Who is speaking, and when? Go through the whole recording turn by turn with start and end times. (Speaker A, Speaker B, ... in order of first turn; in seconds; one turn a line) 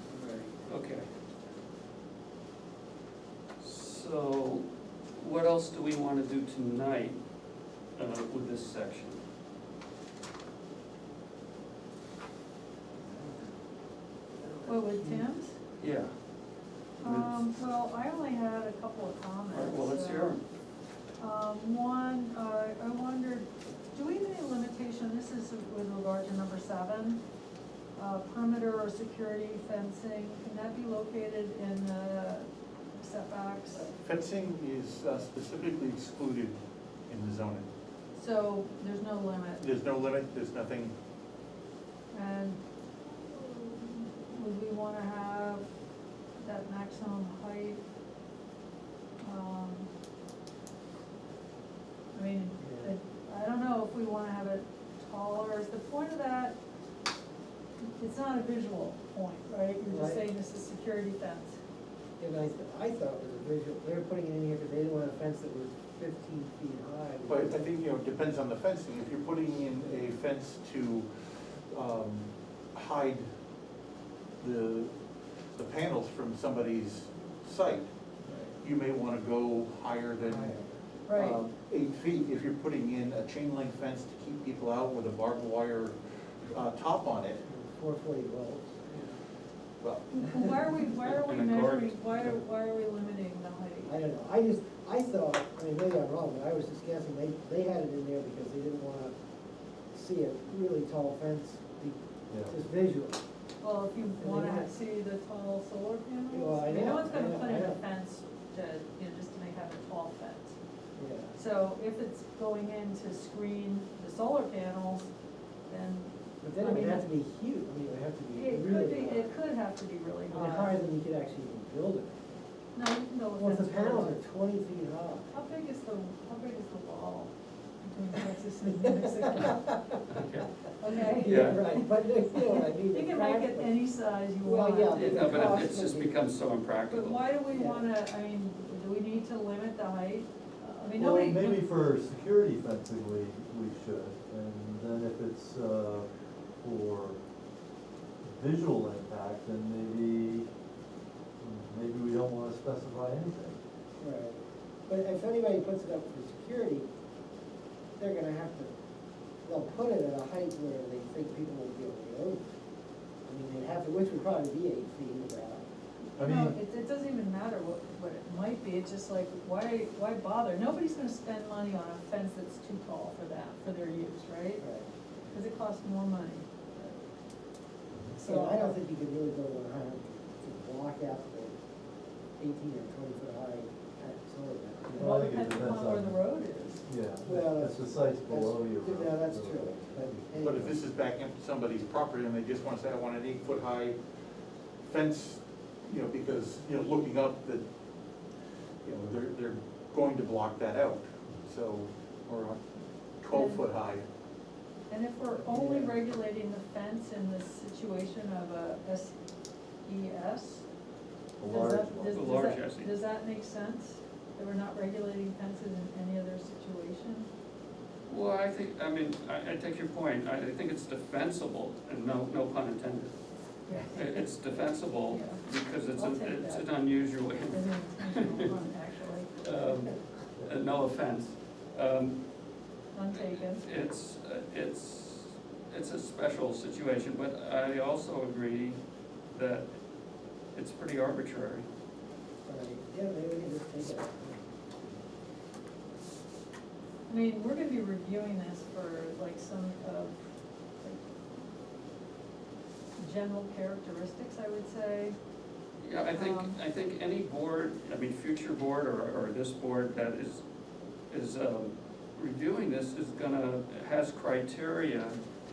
Speaker A: 0.6-1.1
Speaker A: 3.6-7.2
Speaker A: 8.0-9.2
Speaker B: 13.0-13.5
Speaker B: 14.4-15.2
Speaker C: 14.6-15.5
Speaker A: 15.8-16.1
Speaker C: 17.0-20.4
Speaker A: 17.0-17.4
Speaker A: 19.5-20.4
Speaker C: 21.2-27.2
Speaker C: 27.9-33.9
Speaker D: 33.7-37.7
Speaker C: 38.1-39.6
Speaker D: 39.6-40.9
Speaker C: 42.1-42.6
Speaker C: 43.2-45.7
Speaker C: 46.4-47.8
Speaker C: 49.2-49.9
Speaker C: 52.1-56.5
Speaker B: 52.6-52.9
Speaker C: 58.0-61.5
Speaker B: 59.7-60.3
Speaker B: 62.2-67.6
Speaker D: 67.3-71.1
Speaker D: 71.7-73.2
Speaker D: 74.4-74.9
Speaker D: 75.5-77.9
Speaker D: 78.6-80.6
Speaker B: 80.2-80.7
Speaker C: 81.1-81.4
Speaker D: 81.1-85.9
Speaker D: 86.5-87.4
Speaker B: 87.5-88.9
Speaker D: 89.8-90.5
Speaker C: 90.1-94.0
Speaker A: 90.9-92.3
Speaker B: 93.8-99.1
Speaker B: 99.9-103.2
Speaker C: 103.6-110.5
Speaker B: 104.1-104.7
Speaker B: 106.3-107.8
Speaker B: 111.0-111.3
Speaker C: 111.3-115.1
Speaker C: 115.7-117.1
Speaker B: 116.4-119.3
Speaker C: 118.3-120.8
Speaker B: 120.3-122.4
Speaker C: 122.7-124.2
Speaker B: 123.3-125.4
Speaker C: 125.3-129.7
Speaker B: 128.7-130.0
Speaker A: 130.1-130.5
Speaker C: 130.8-135.9
Speaker B: 131.1-133.8
Speaker A: 131.2-131.7
Speaker B: 134.4-136.2
Speaker A: 134.9-137.3
Speaker C: 136.9-141.6
Speaker B: 137.5-137.9
Speaker E: 141.0-146.1
Speaker E: 146.6-147.2
Speaker E: 148.2-150.5
Speaker E: 151.4-153.6
Speaker B: 154.0-156.9
Speaker B: 158.0-158.7
Speaker B: 159.4-162.4
Speaker B: 163.2-165.6
Speaker E: 166.2-166.6
Speaker C: 166.2-174.6
Speaker B: 174.6-174.9
Speaker C: 175.3-177.0
Speaker C: 178.2-178.8
Speaker B: 178.2-181.5
Speaker B: 182.4-185.1
Speaker E: 184.9-186.1
Speaker C: 184.9-186.8
Speaker E: 186.9-190.7
Speaker B: 187.2-190.7
Speaker D: 190.4-194.0
Speaker D: 194.8-197.6
Speaker D: 198.8-202.6
Speaker D: 203.2-204.1
Speaker C: 203.3-203.7
Speaker C: 204.9-209.1
Speaker B: 205.4-206.0
Speaker C: 209.8-210.6
Speaker E: 211.4-212.2
Speaker C: 211.4-217.3
Speaker A: 212.1-212.9
Speaker A: 218.1-223.2
Speaker C: 223.7-224.2
Speaker A: 223.7-228.5
Speaker C: 225.0-229.3
Speaker A: 229.3-232.2
Speaker C: 232.9-233.8
Speaker A: 233.1-238.8
Speaker A: 239.3-239.7
Speaker A: 240.5-241.7
Speaker B: 242.4-244.5
Speaker C: 247.1-250.2
Speaker C: 253.0-255.2
Speaker A: 255.8-260.4
Speaker C: 256.1-256.6
Speaker A: 261.1-265.2